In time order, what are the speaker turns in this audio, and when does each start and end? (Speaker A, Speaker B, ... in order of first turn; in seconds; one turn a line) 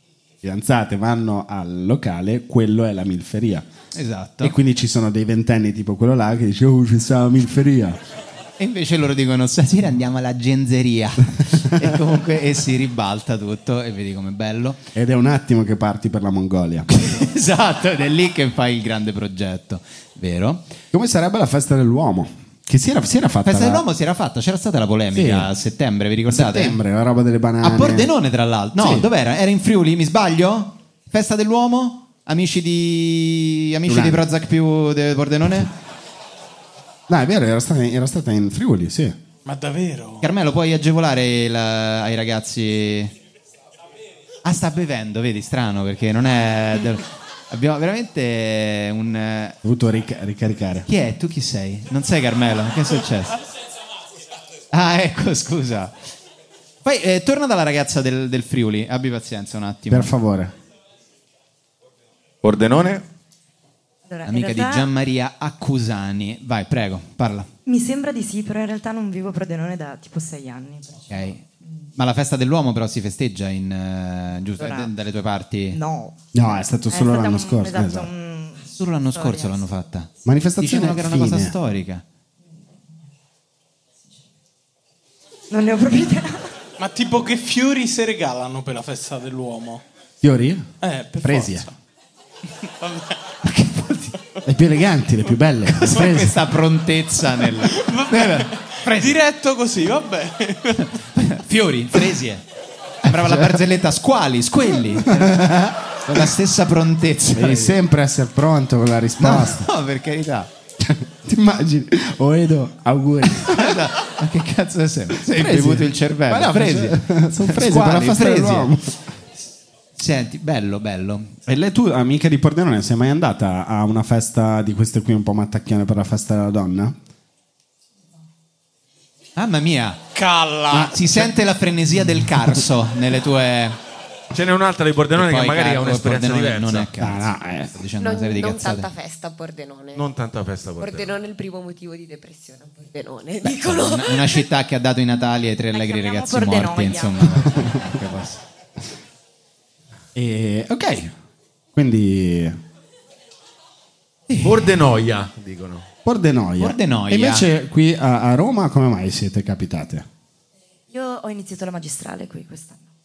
Speaker A: 0.4-3.6
Speaker B: 3.9-4.5
Speaker A: 4.4-8.0
Speaker B: 8.6-14.8
Speaker A: 14.9-17.2
Speaker B: 17.1-20.6
Speaker A: 20.9-23.8
Speaker B: 23.4-26.8
Speaker A: 25.1-25.5
Speaker A: 26.3-28.1
Speaker B: 27.6-35.7
Speaker A: 28.7-29.1
Speaker A: 33.9-34.2
Speaker A: 37.1-39.2
Speaker C: 39.4-40.2
Speaker B: 40.2-43.1
Speaker B: 44.4-49.6
Speaker A: 49.6-50.9
Speaker B: 50.9-53.4
Speaker B: 54.7-55.9
Speaker B: 56.8-60.1
Speaker A: 59.9-60.5
Speaker D: 62.4-63.0
Speaker E: 64.1-64.9
Speaker B: 64.2-67.5
Speaker E: 67.7-71.3
Speaker B: 71.1-71.4
Speaker B: 71.9-75.8
Speaker E: 74.6-74.9
Speaker E: 75.7-76.2
Speaker A: 76.3-78.1
Speaker E: 76.9-79.6
Speaker B: 78.8-82.0
Speaker A: 80.2-81.5
Speaker E: 85.5-86.5
Speaker C: 86.8-89.8
Speaker A: 90.2-90.7
Speaker C: 90.8-91.7
Speaker A: 91.2-91.7
Speaker C: 92.6-93.2
Speaker B: 93.4-94.1
Speaker A: 94.5-96.4
Speaker B: 95.7-99.2
Speaker C: 97.6-100.9
Speaker B: 100.8-102.4
Speaker B: 103.0-107.8
Speaker A: 103.1-103.6
Speaker A: 105.0-106.3
Speaker A: 107.3-109.7
Speaker B: 109.2-110.5
Speaker A: 110.8-113.8
Speaker B: 113.3-118.7
Speaker A: 115.2-119.0
Speaker B: 120.0-121.4
Speaker A: 121.5-127.0
Speaker B: 129.4-130.0
Speaker C: 130.1-131.3
Speaker B: 130.7-133.8
Speaker D: 134.3-136.9
Speaker B: 135.1-138.9
Speaker A: 137.0-137.8
Speaker F: 138.0-140.1
Speaker D: 139.9-141.2
Speaker F: 140.8-144.3
Speaker E: 143.4-143.9
Speaker B: 143.6-148.4
Speaker E: 145.7-147.5
Speaker A: 150.1-151.1
Speaker A: 151.7-152.6
Speaker B: 154.3-154.7
Speaker D: 154.4-155.8
Speaker A: 156.0-160.1
Speaker B: 156.6-157.5
Speaker E: 160.9-162.9